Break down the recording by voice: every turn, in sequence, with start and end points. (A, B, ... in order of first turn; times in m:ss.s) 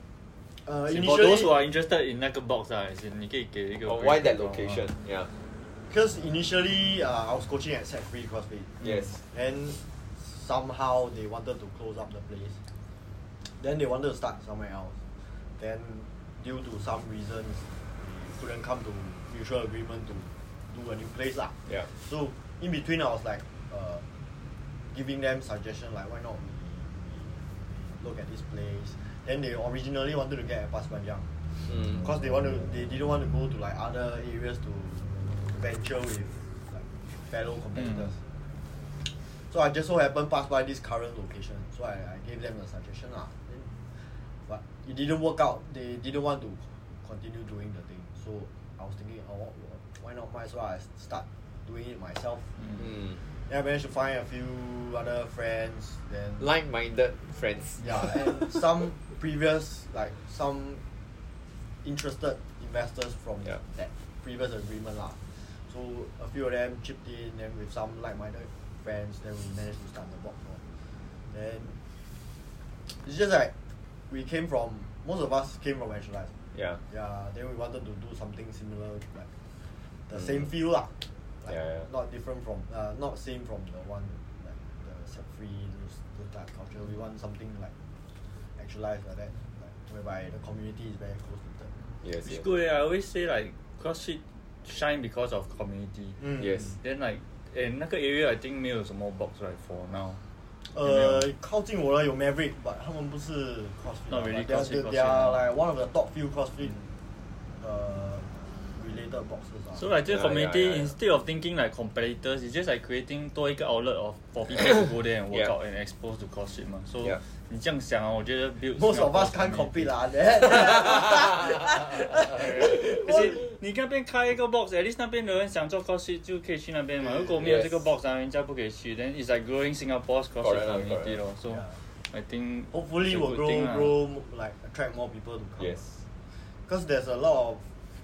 0:00.6-0:01.5 A
0:00.9-0:04.9 B
0:03.9-0:05.3 C
0:05.9-0:12.6 A
0:08.8-0:09.2 C
0:13.6-0:15.0 A
0:15.6-0:24.0 A
0:24.9-0:31.3 A
0:31.7-0:32.1 C
0:31.9-0:38.2 A
0:37.8-0:38.0 B
0:39.5-0:43.7 A
0:44.5-0:52.5 A
0:52.8-0:53.2 C
0:53.5-0:56.5 A
0:56.4-0:58.6 C
0:57.8-1:00.8 A
1:01.8-1:10.6 A
1:11.3-1:11.8 A
1:12.9-1:13.5 A
1:14.1-1:16.3 A
1:16.5-1:16.8 C
1:16.9-1:19.3 A
1:20.1-1:27.7 A
1:21.5-1:21.9 C
1:28.6-1:31.7 A
1:32.0-1:32.5 C
1:32.2-1:36.2 B
1:36.2-1:36.7 A
1:36.4-1:36.8 C
1:36.8-1:40.2 B
1:40.7-1:46.8 A
1:40.8-1:41.2 B
1:44.1-1:45.4 B
1:47.6-1:49.9 A
1:49.8-1:59.9 B
1:50.1-1:51.0 C
1:58.8-2:03.4 A
2:00.6-2:01.6 C
2:02.1-2:14.0 B
2:07.3-2:07.8 C
2:10.4-2:11.2 C
2:11.5-2:11.8 A
2:12.7-2:15.8 A
2:15.6-2:16.0 C
2:16.7-2:17.6 A